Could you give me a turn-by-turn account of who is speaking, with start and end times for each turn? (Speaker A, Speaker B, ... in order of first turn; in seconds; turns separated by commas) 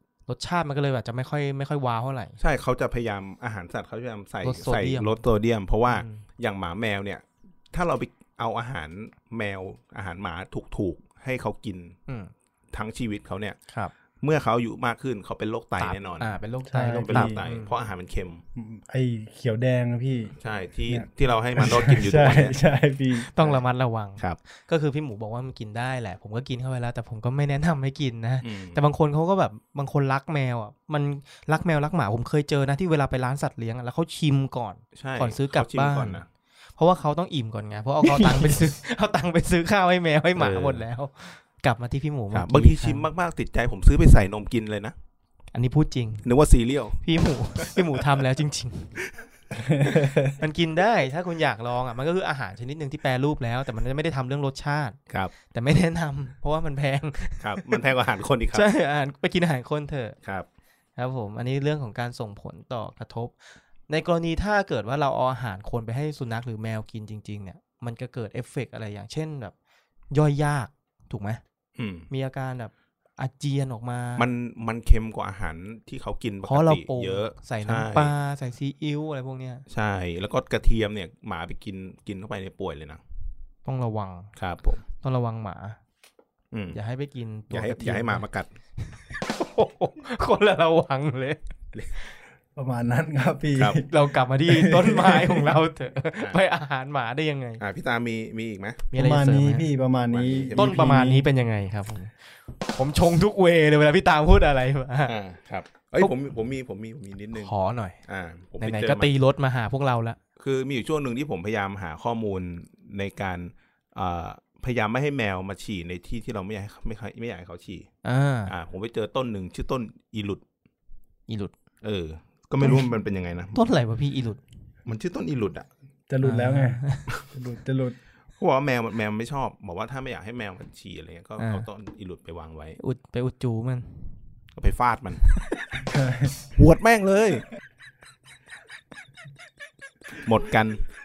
Speaker A: 0.3-2.4, Speaker B: 2.4-12.0, Speaker A: 4.4-5.2, Speaker A: 5.9-6.2, Speaker A: 12.1-12.3, Speaker B: 12.7-13.6, Speaker B: 14.2-16.3, Speaker A: 15.8-17.7, Speaker C: 16.6-17.4, Speaker B: 17.0-18.4, Speaker C: 18.6-20.3, Speaker B: 20.4-22.6, Speaker C: 20.9-23.3, Speaker A: 23.2-36.2, Speaker B: 28.4-28.8, Speaker B: 34.9-36.3, Speaker A: 36.8-43.0, Speaker B: 38.1-38.5, Speaker B: 40.4-40.8, Speaker B: 42.3-44.9, Speaker A: 45.5-46.3, Speaker B: 46.2-47.0, Speaker A: 47.0-49.0, Speaker B: 47.6-48.2, Speaker C: 49.6-50.3, Speaker A: 50.0-57.8, Speaker B: 57.4-58.6, Speaker A: 58.5-60.1, Speaker A: 61.0-69.5, Speaker A: 70.1-71.4, Speaker B: 71.8-72.1, Speaker A: 72.1-74.2, Speaker B: 74.2-78.1, Speaker A: 76.5-79.6, Speaker B: 79.7-83.0, Speaker A: 83.6-84.3, Speaker B: 84.4-84.8, Speaker A: 85.0-85.8, Speaker B: 86.5-86.8, Speaker A: 86.7-88.2, Speaker B: 87.5-88.5, Speaker A: 88.8-91.4, Speaker C: 92.5-93.9, Speaker A: 93.8-97.6, Speaker C: 94.5-95.4, Speaker B: 97.6-98.9, Speaker A: 98.9-99.7, Speaker C: 98.9-101.2, Speaker B: 100.1-100.9, Speaker A: 100.5-105.2, Speaker B: 105.1-107.5, Speaker A: 107.3-108.0, Speaker B: 108.1-109.1, Speaker A: 108.6-110.2, Speaker B: 110.4-117.9, Speaker A: 118.0-118.5, Speaker B: 118.5-120.4, Speaker A: 121.3-121.5, Speaker B: 121.8-123.6, Speaker A: 123.5-124.4, Speaker B: 124.8-125.7, Speaker C: 126.1-128.0, Speaker A: 126.2-127.1, Speaker B: 128.4-132.8, Speaker A: 131.4-131.7, Speaker A: 132.8-134.2, Speaker B: 134.6-135.3, Speaker C: 135.9-136.3, Speaker B: 136.6-137.4, Speaker B: 140.2-140.8